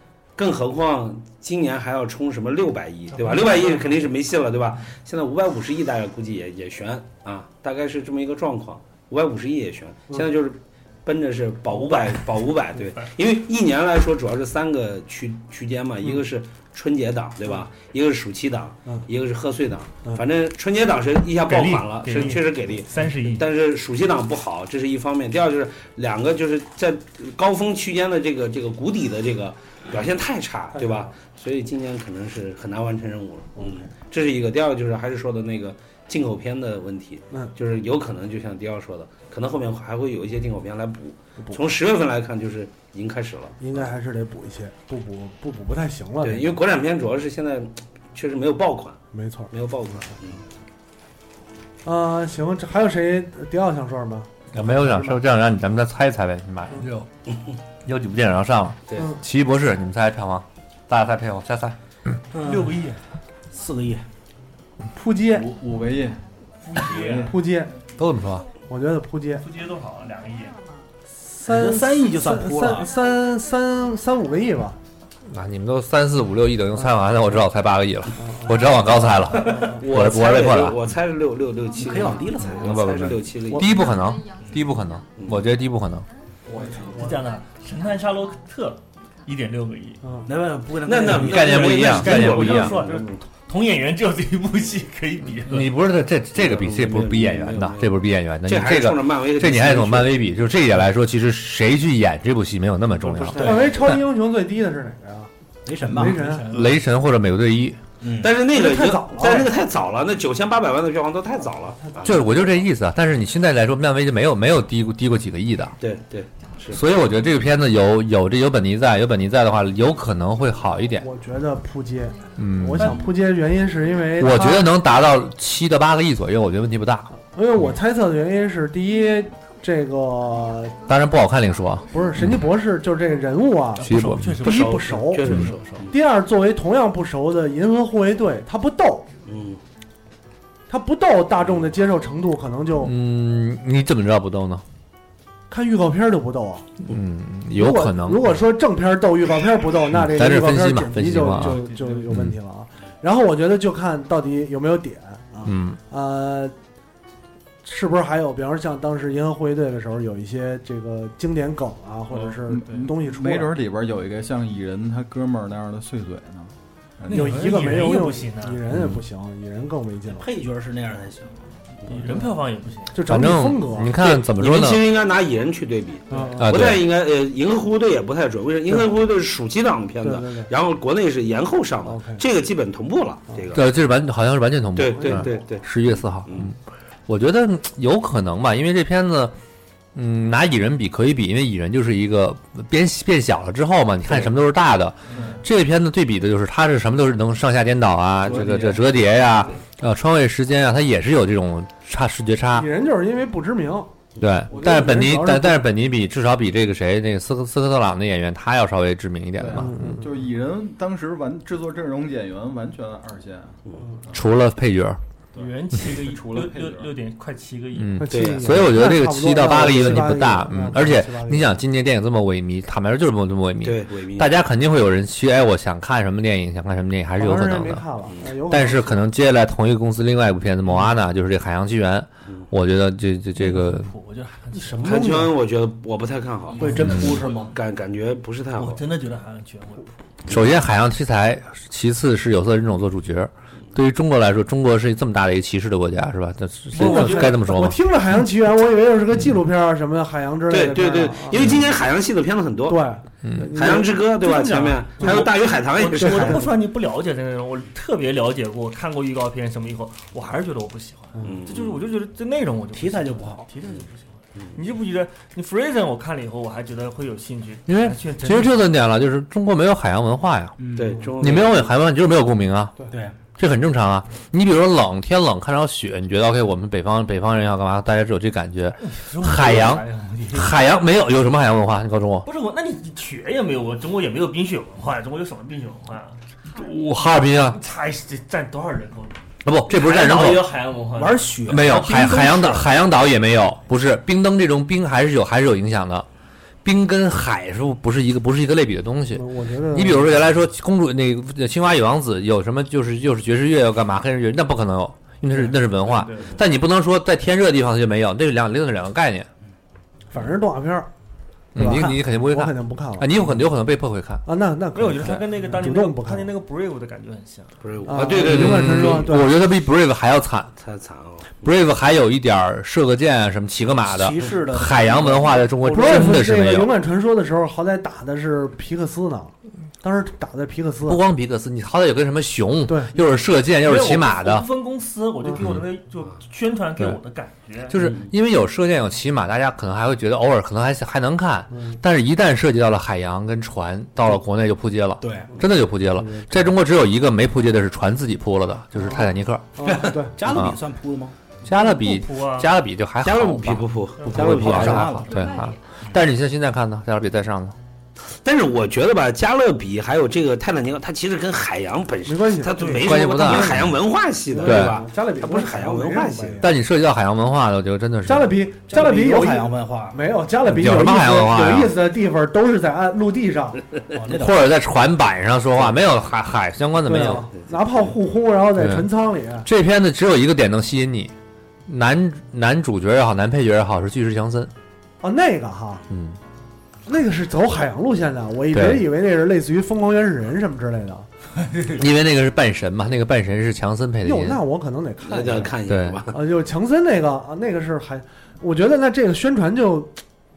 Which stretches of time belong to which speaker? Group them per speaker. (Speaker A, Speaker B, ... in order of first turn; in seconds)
Speaker A: 0.3-43.8, 46.2-49.0, 49.5-50.4, 79.6-84.0, 85.1-85.5, 90.8-93.2, 96.3-100.3, 108.2-112.5, 115.8-116.9, 134.4-135.9, 139.2-139.6, 174.0-183.7, 184.7-186.5, 218.1-218.5, 223.6-224.3, 228.1-228.3, 234.8-236.8, 237.3-238.8, 250.5-252.8, 253.5-256.4, 261.2-261.8, 270.7-271.7, 317.6-319.1, 320.6-321.7, 353.0-354.9, 358.2-366.5, 377.4-377.9, 395.0-396.2
Speaker B: 3.2-3.9, 21.4-23.4, 62.4-63.0, 66.6-67.3, 69.4-70.5, 86.7-90.0, 91.7-95.8, 105.9-106.8, 133.8-135.9, 151.3-152.1, 162.1-162.9, 167.1-168.6, 171.9-173.0, 215.3-218.0, 233.3-235.2, 236.6-237.3, 238.6-239.9, 246.7-247.3, 255.0-268.6, 278.8-280.6, 282.2-286.2, 287.5-291.4, 305.3-306.4, 314.7-317.5, 333.6-337.8, 351.5-352.5, 354.0-355.3
Speaker C: 30.7-31.1, 33.6-33.9, 43.6-46.6, 49.1-49.5, 51.8-55.2, 59.0-59.2, 64.9-65.5, 67.2-67.8, 68.7-69.5, 71.2-74.8, 78.1-79.8, 90.0-90.3, 103.3-105.3, 105.9-106.5, 108.5-109.5, 111.8-112.5, 121.0-124.7, 127.2-130.8, 131.8-139.1, 140.7-142.9, 145.5-146.7, 147.5-156.5, 157.6-163.5, 167.1-170.3, 171.9-172.3, 172.9-174.0, 176.1-176.6, 180.0-180.5, 181.8-182.2, 202.5-203.9, 204.5-205.7, 209.5-210.0, 218.0-221.6, 227.2-229.0, 234.6-235.3, 246.7-251.5, 252.7-255.3, 255.9-256.5, 299.1-300.2, 310.1-310.9, 311.5-313.3, 314.2-316.3, 317.9-319.3, 325.6-331.0, 332.6-332.9, 341.5-341.8, 346.0-346.4, 348.7-350.1, 362.0-363.6, 364.3-366.5, 368.0-373.6, 376.8-379.5, 385.0-385.9, 386.9-391.1, 394.0-395.5, 396.1-400.0
Speaker D: 54.5-56.8, 57.8-61.8, 67.9-68.5, 75.3-80.8, 82.5-86.0, 91.1-92.8, 95.4-103.7, 106.5-107.8, 112.0-115.8, 116.7-121.1, 122.3-123.1, 124.2-127.7, 130.9-132.5, 133.8-134.4, 142.8-144.6, 146.8-148.4, 150.0-152.3, 155.4-155.8, 168.7-169.0, 173.1-174.8, 176.4-176.8, 183.5-186.6, 187.1-189.3, 189.9-202.7, 204.2-210.0, 214.1-215.0, 217.7-227.8, 228.5-233.9, 240.2-247.8, 253.2-253.5, 267.7-270.5, 271.2-272.8, 273.4-282.2, 286.6-287.6, 289.4-290.5, 291.4-296.1, 296.6-309.3, 311.5-314.2, 318.2-320.5, 321.3-326.7, 330.9-334.5, 335.3-335.6, 337.7-349.5, 350.2-350.6, 351.4-357.5, 362.7-363.7, 364.4-364.8, 366.4-368.4, 370.4-371.7, 374.1-377.3, 378.6-378.9, 379.4-381.1, 381.7-384.5, 385.9-386.2, 388.5-388.8, 391.7-394.4, 395.7-396.0
Speaker E: 56.7-57.1, 62.3-62.8, 63.5-64.0, 71.4-72.9, 81.8-82.7, 86.5-87.1, 90.2-92.1, 103.0-104.0, 105.7-106.4, 108.0-108.3, 170.1-172.2, 198.3-198.7, 236.6-237.5, 262.7-263.5, 270.6-271.1, 272.9-273.2, 290.9-292.7, 323.8-326.2, 345.0-345.4, 349.6-351.1, 354.1-355.2, 368.7-370.0, 373.9-374.5
Speaker F: 65.3-67.3, 162.5-167.4, 198.5-198.8, 209.4-213.6, 215.3-216.9